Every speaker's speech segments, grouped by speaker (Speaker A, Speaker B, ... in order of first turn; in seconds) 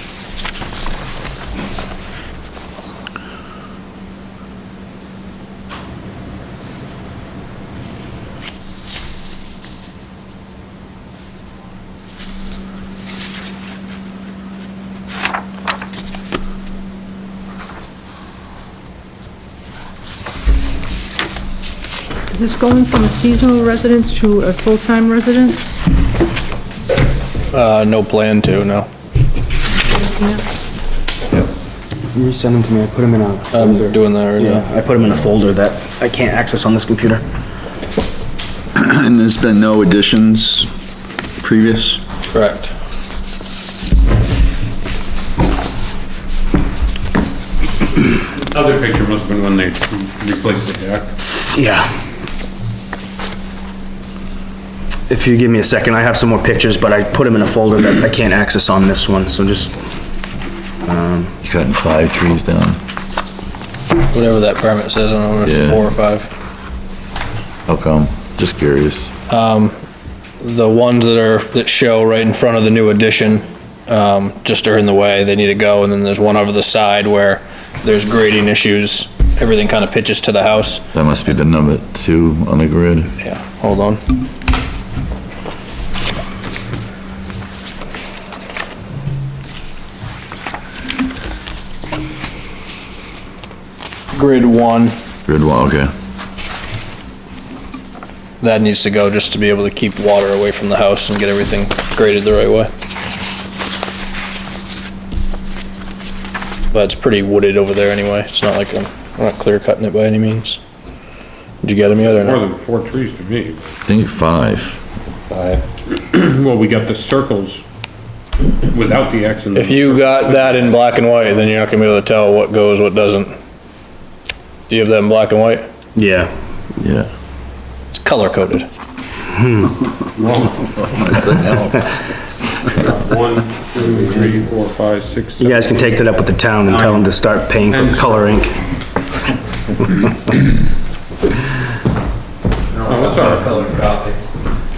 Speaker A: 22.3-25.8, 29.9-30.4
Speaker B: 27.5-28.9, 33.5-34.7, 42.3-42.7, 64.1-66.3, 69.3-69.8, 70.4-80.8, 83.2-84.0, 94.1-95.0, 98.4-102.7, 106.7-110.6, 111.6-112.4, 119.5-123.3, 124.7-125.7, 127.9-128.7, 142.7-144.2
Speaker C: 32.1-37.2, 51.5-51.9, 55.1-59.8, 60.8-61.4, 126.0-126.3, 129.3-129.8, 135.4-138.6
Speaker D: 38.8-40.7, 41.4-42.0
Speaker E: 48.3-51.1, 111.9-113.8, 115.3-117.7, 118.6-120.7, 132.7-136.0, 136.7-137.1, 137.6-138.4, 142.9-143.8
Speaker F: 61.4-62.8, 65.5-65.8, 67.7-69.1, 80.9-83.1, 95.3-95.9, 113.9-114.8, 126.8-127.1, 131.0-131.8